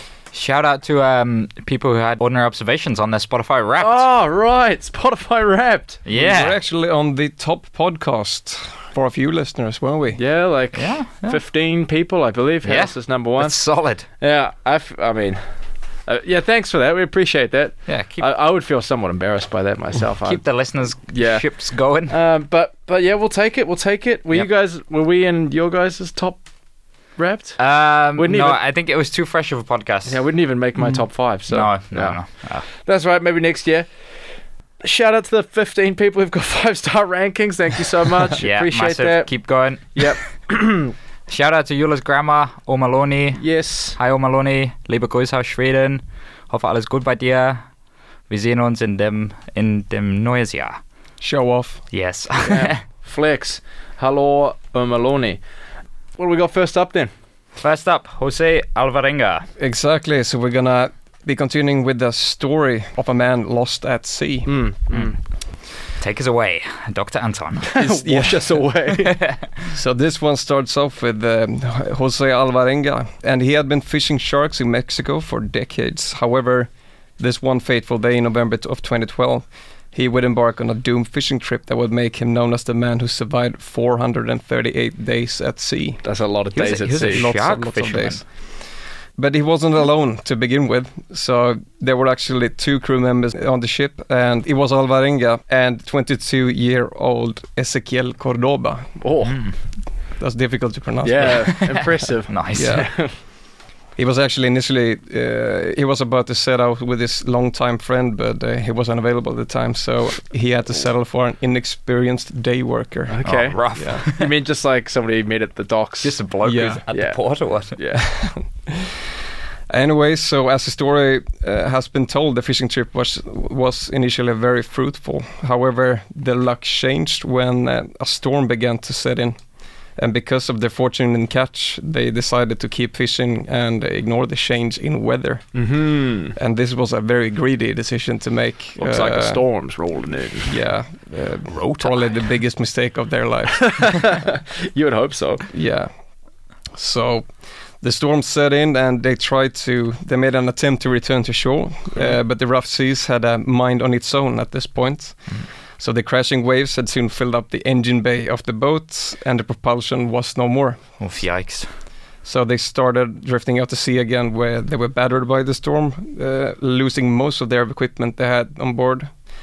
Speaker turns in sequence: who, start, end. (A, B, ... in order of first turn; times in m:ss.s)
0:00.3-0:04.0 A
0:03.8-0:06.0 B
0:06.1-0:06.6 A
0:06.1-0:10.2 C
0:10.2-0:15.4 B
0:10.8-0:11.4 A
0:12.6-0:14.1 A
0:16.1-0:26.4 B
0:17.9-0:18.3 A
0:20.2-0:22.1 A
0:27.2-0:28.6 B
0:27.6-0:30.2 A
0:30.1-0:33.9 B
0:31.5-0:32.6 A
0:34.8-0:40.9 B
0:38.4-0:40.1 A
0:41.3-0:47.6 A
0:43.4-0:44.0 B
0:48.3-0:50.8 A
0:51.2-0:51.8 C
0:51.9-0:52.8 A
0:52.4-0:55.4 B
0:56.2-0:57.1 B
0:57.6-0:59.5 A
0:59.6-1:04.6 C
1:04.5-1:05.2 B
1:06.0-1:07.7 A
1:07.7-1:09.2 B
1:07.8-1:08.7 C
1:09.7-1:26.0 C
1:26.0-1:27.3 B
1:26.6-1:28.2 A
1:27.0-1:28.3 C
1:29.2-1:38.9 C
1:39.0-1:39.4 B
1:39.2-1:39.6 A
1:40.2-1:41.8 C
1:41.0-1:43.1 B
1:41.3-1:42.9 A
1:42.6-1:42.9 C
1:44.0-1:53.2 C
1:53.1-1:56.2 B
1:53.2-1:54.3 A
1:53.8-1:54.0 C
1:56.0-1:57.8 A
1:56.4-1:56.8 C
1:56.9-1:58.0 B
1:58.0-1:58.9 C
1:59.7-2:09.4 C
2:10.0-2:15.7 C
2:15.5-2:16.4 B
2:16.3-2:19.4 C
2:18.8-2:20.6 B
2:20.5-2:23.9 C
2:21.5-2:22.1 A
2:23.6-2:25.5 B
2:25.5-2:25.9 C
2:26.7-2:27.3 C
2:27.8-2:35.2 C
2:35.8-2:40.8 C
2:41.0-2:41.7 A
2:42.2-2:49.1 C